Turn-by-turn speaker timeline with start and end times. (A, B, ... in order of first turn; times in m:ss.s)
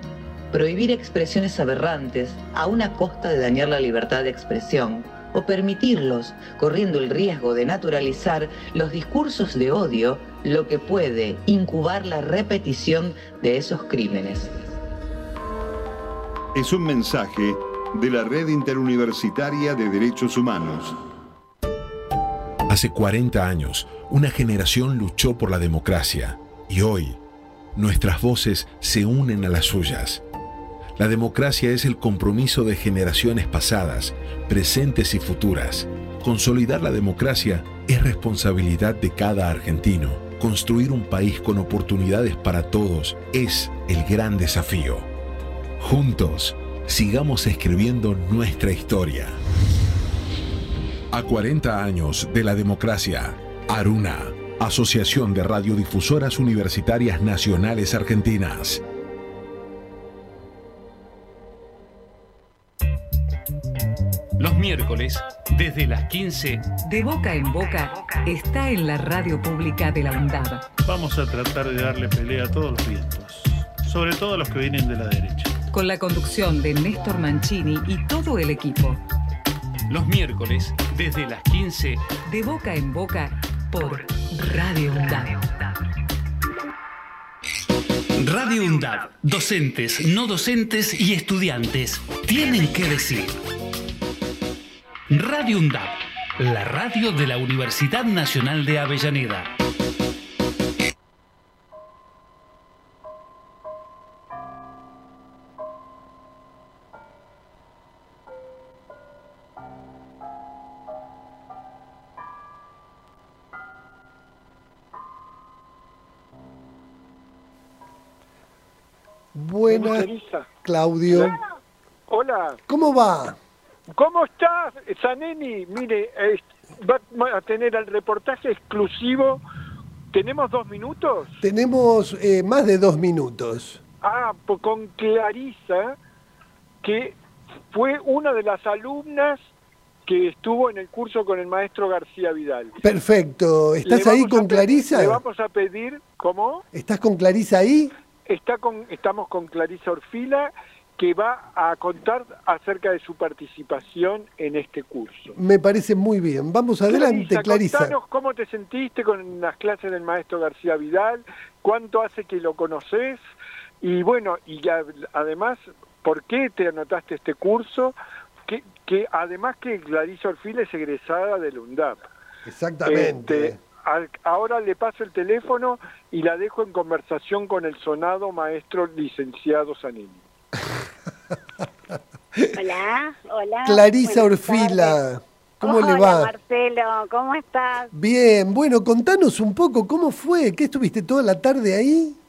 0:00.5-0:14.7 A
0:16.5-0:21.0 B
0:22.7-0:27.2 C
0:27.8-0:30.2 C
0:31.0-0:45.1 C
0:45.8-0:49.4 C
0:51.1-0:58.8 C
1:04.4-1:06.6 D
1:06.8-1:10.7 E
1:10.8-1:15.6 F
1:15.7-1:19.0 E
1:19.9-1:22.1 D
1:22.2-1:25.6 E
1:28.2-1:33.4 D
1:35.1-1:39.5 D
1:59.3-2:00.1 G
1:59.7-2:00.5 H
2:00.6-2:01.4 G
2:01.1-2:01.4 H
2:02.1-2:02.6 H
2:02.7-2:03.4 G
2:03.9-2:09.4 H
2:10.1-2:11.4 H
2:11.4-2:13.8 G
2:14.0-2:16.0 H
2:16.8-2:17.2 H
2:17.7-2:19.5 H
2:20.1-2:22.8 H
2:22.8-2:25.2 G
2:23.9-2:26.6 H
2:26.7-2:27.9 G
2:28.3-2:35.4 H
2:35.3-2:38.0 G
2:36.9-2:43.2 H
2:43.8-2:47.9 H
2:48.5-2:52.0 H
2:52.4-2:53.6 G
2:52.9-3:00.2 H
3:02.5-3:05.0 I
3:03.7-3:06.3 G
3:05.6-3:07.9 I
3:07.9-3:12.2 G